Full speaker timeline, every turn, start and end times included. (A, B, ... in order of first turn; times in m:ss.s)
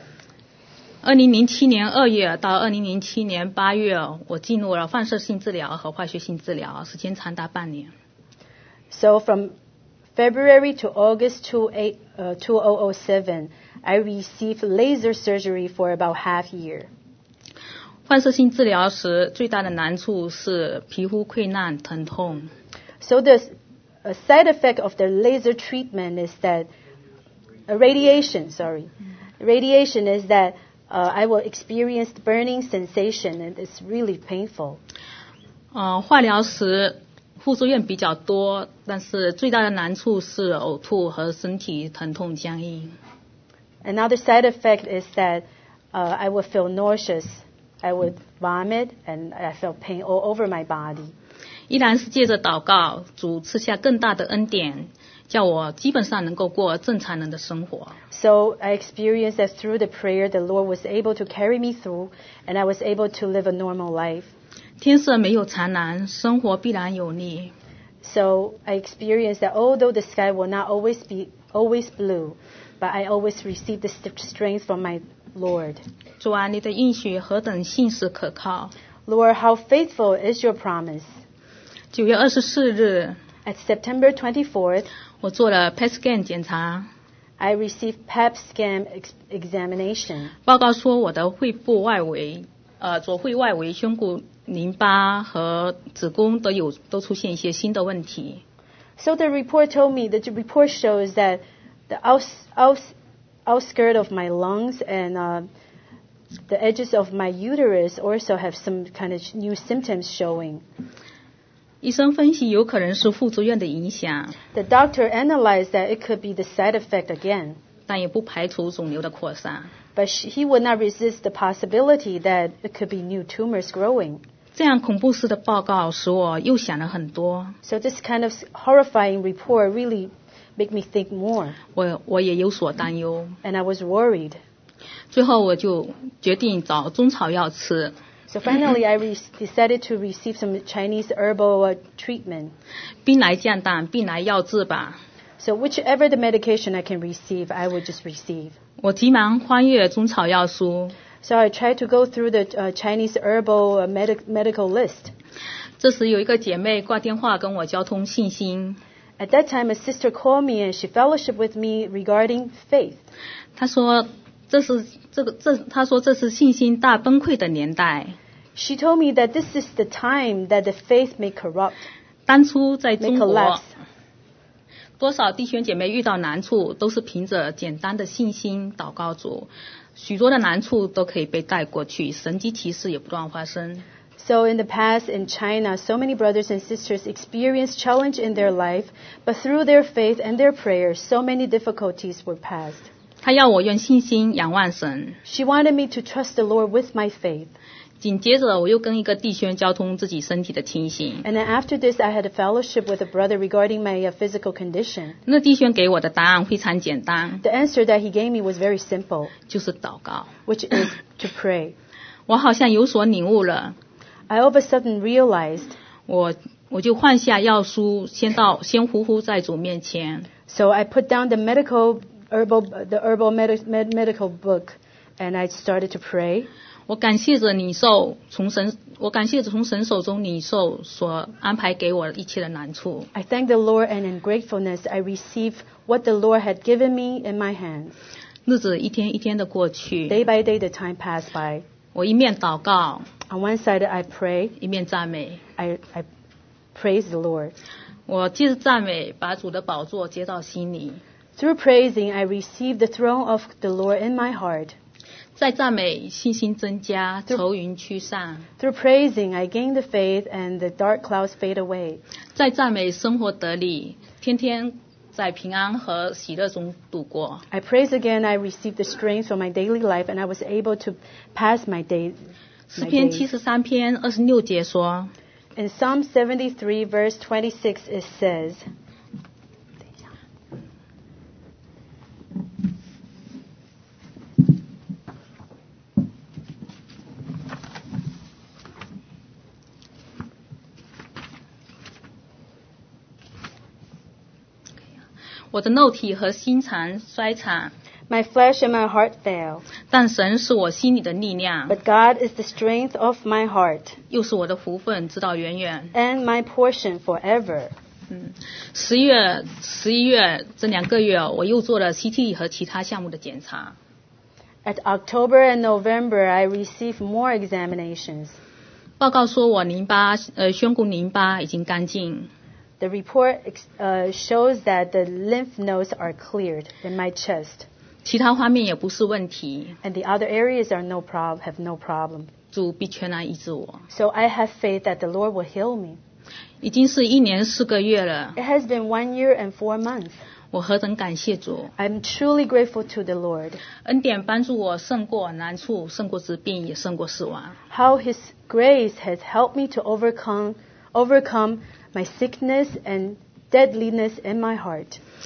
0:01.0-0:07.9 A
0:08.9-0:09.5 B
0:10.2-0:16.9 B
0:18.1-0:22.5 A
0:23.0-0:23.5 B
0:24.0-0:26.7 B
0:27.7-0:34.8 B
0:35.7-0:42.9 A
0:43.8-0:51.1 B
0:51.7-0:58.0 A
0:58.1-1:04.3 B
1:04.8-1:07.5 A
1:08.0-1:15.8 B
1:16.2-1:18.7 A
1:19.0-1:21.1 B
1:21.9-1:23.2 A
1:23.4-1:24.9 B
1:25.2-1:26.9 A
1:27.4-1:30.3 B
1:30.4-1:38.4 A
1:39.0-1:42.9 B
1:43.4-1:45.5 B
1:46.5-1:50.6 B
1:51.8-1:54.4 A
1:54.5-1:57.6 B
1:57.9-1:59.7 A
2:00.0-2:04.2 B
2:04.5-2:07.5 A
2:07.6-2:11.6 B
2:11.7-2:13.4 A
2:13.4-2:14.4 B
2:15.1-2:17.9 A
2:18.3-2:22.5 B
2:23.0-2:25.0 A
2:25.4-2:28.5 B
2:28.8-2:30.9 A
2:31.2-2:35.1 B
2:35.8-2:38.8 A
2:39.2-2:43.0 B
2:43.6-2:48.2 A
2:48.6-2:51.9 B
2:52.3-2:53.6 A
2:53.0-2:53.7 B
2:55.0-3:03.8 A
3:04.2-3:12.9 B
3:13.2-3:15.2 A
3:15.2-3:17.5 B
3:18.0-3:21.2 A
3:21.2-3:25.2 B
3:25.2-3:27.4 A
3:27.4-3:29.3 B
3:29.5-3:30.3 A
3:30.5-3:31.7 B
3:32.3-3:33.8 A
3:34.3-3:35.8 B
3:36.1-3:40.3 A
3:40.5-3:46.5 B
3:46.9-3:53.1 A
3:53.1-3:57.9 B
3:58.4-4:00.2 A
4:00.1-4:01.6 B
4:01.9-4:03.1 A
4:03.3-4:04.5 B
4:04.6-4:05.4 A
4:05.6-4:06.0 B
4:06.7-4:07.5 B
4:08.1-4:11.0 A
4:11.4-4:14.8 B
4:15.4-4:18.5 A
4:18.6-4:22.0 B
4:22.3-4:27.4 A
4:27.5-4:32.2 B
4:32.7-4:35.1 A
4:32.8-4:33.2 B
4:35.6-4:38.6 B
4:55.5-4:57.7 A
4:58.1-4:59.6 B
4:59.9-5:01.8 A
5:01.7-5:04.0 B
5:04.1-5:05.9 A
5:05.9-5:07.7 B
5:08.1-5:13.8 A
5:14.6-5:18.4 B
5:19.0-5:22.3 A
5:22.8-5:27.7 B
5:28.0-5:29.8 A
5:29.8-5:32.3 B
5:32.5-5:33.8 A
5:33.9-5:36.0 B
5:36.6-5:38.4 A
5:38.4-5:40.2 B
5:40.5-5:41.7 A
5:41.8-5:43.6 B
5:43.8-5:47.6 A
5:47.7-5:55.0 B